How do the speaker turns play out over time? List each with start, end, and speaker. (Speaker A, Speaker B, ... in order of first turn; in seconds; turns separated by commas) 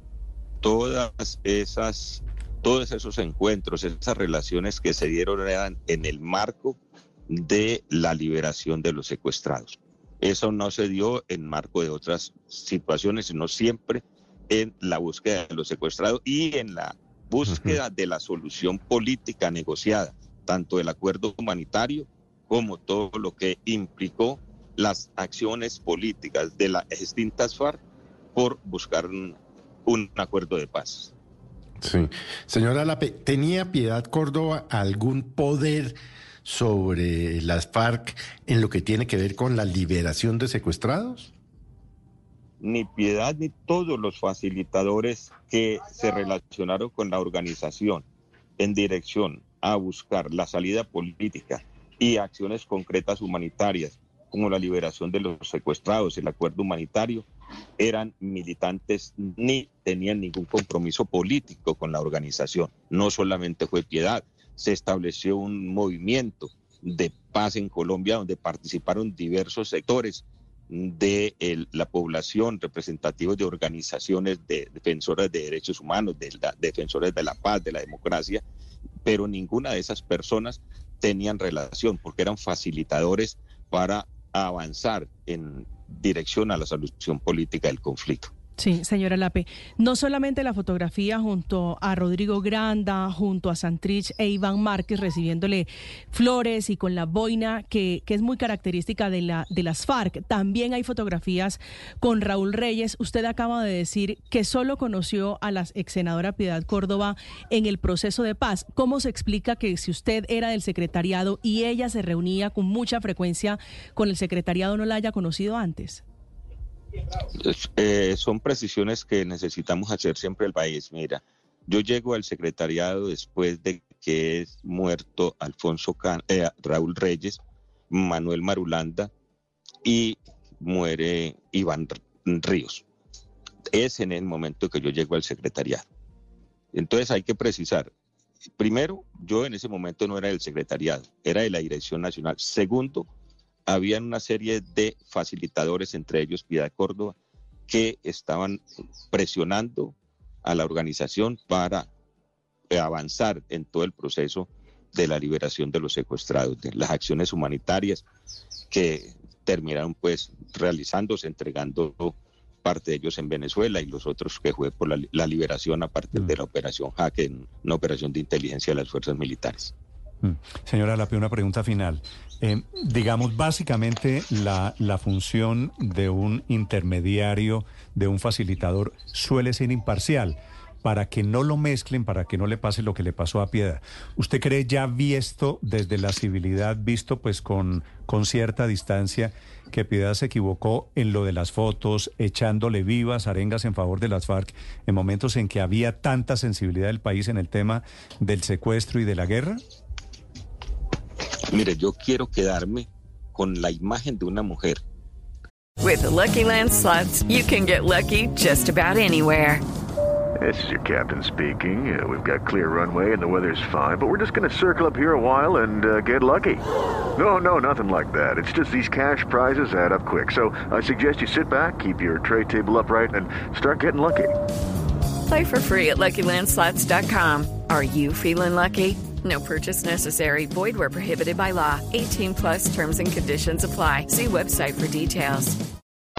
Speaker A: 0.6-27.8, Speaker B: 17.4-17.8, Speaker A: 28.3-31.1, Speaker B: 31.8-41.3, Speaker A: 42.6-48.0, Speaker A: 48.6-57.3, Speaker A: 57.8-78.4, Speaker A: 79.0-88.3, Speaker C: 88.6-116.0, Speaker A: 117.4-129.1, Speaker A: 129.8-132.8, Speaker A: 133.7-135.8, Speaker A: 136.7-137.9, Speaker A: 138.6-143.1, Speaker A: 143.7-147.2, Speaker A: 147.7-148.6, Speaker A: 149.1-151.9, Speaker A: 152.7-158.0, Speaker A: 158.7-169.7, Speaker D: 170.2-199.6, Speaker A: 201.5-204.8, Speaker E: 205.8-209.6, Speaker F: 210.4-216.6, Speaker F: 217.2-224.3, Speaker E: 225.3-235.6